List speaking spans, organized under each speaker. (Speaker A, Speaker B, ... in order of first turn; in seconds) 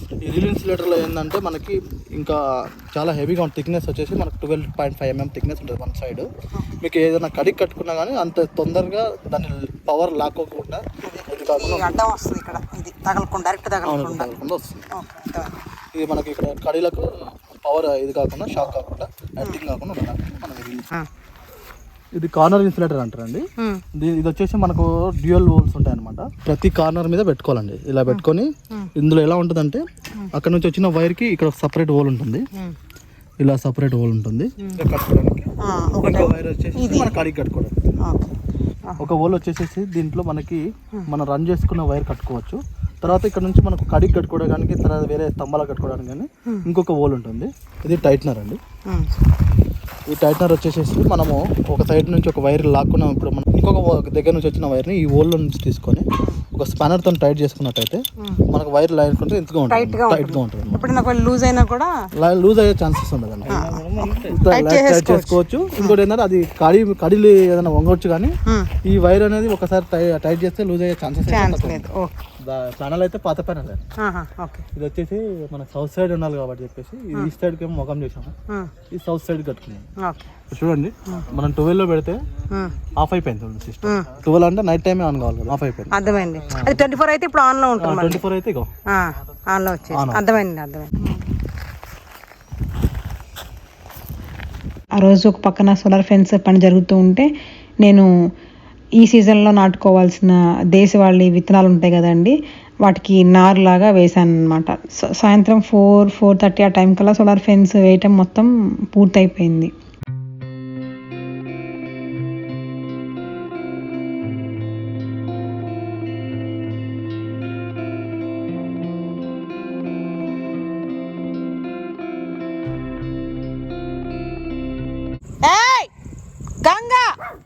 Speaker A: 0.2-6.3, 6.8-12.1, 13.8-14.9, 15.9-20.9, 22.1-32.5, 33.4-37.7, 39.0-48.6, 50.1-60.9, 62.1-68.3, 68.8-71.9, 72.4-73.8, 74.7-78.3, 78.9-79.9, 80.5-82.2, 82.9-86.9, 87.8-88.7, 89.9-90.2
Speaker B: 11.0-14.3, 14.9-15.6, 23.6-23.8, 28.1-28.9, 35.6-37.1, 38.0-39.1, 48.9-49.1, 56.2-56.4, 59.7-61.9, 63.5-66.0, 68.5-68.7, 71.3-72.2, 74.0-74.7, 80.0-80.3, 82.5-82.8, 83.8-84.1, 85.9-88.2, 88.9-91.2, 125.4-125.9, 126.6-127.1
Speaker C: 95.0-97.3, 97.8-98.1, 99.0-109.7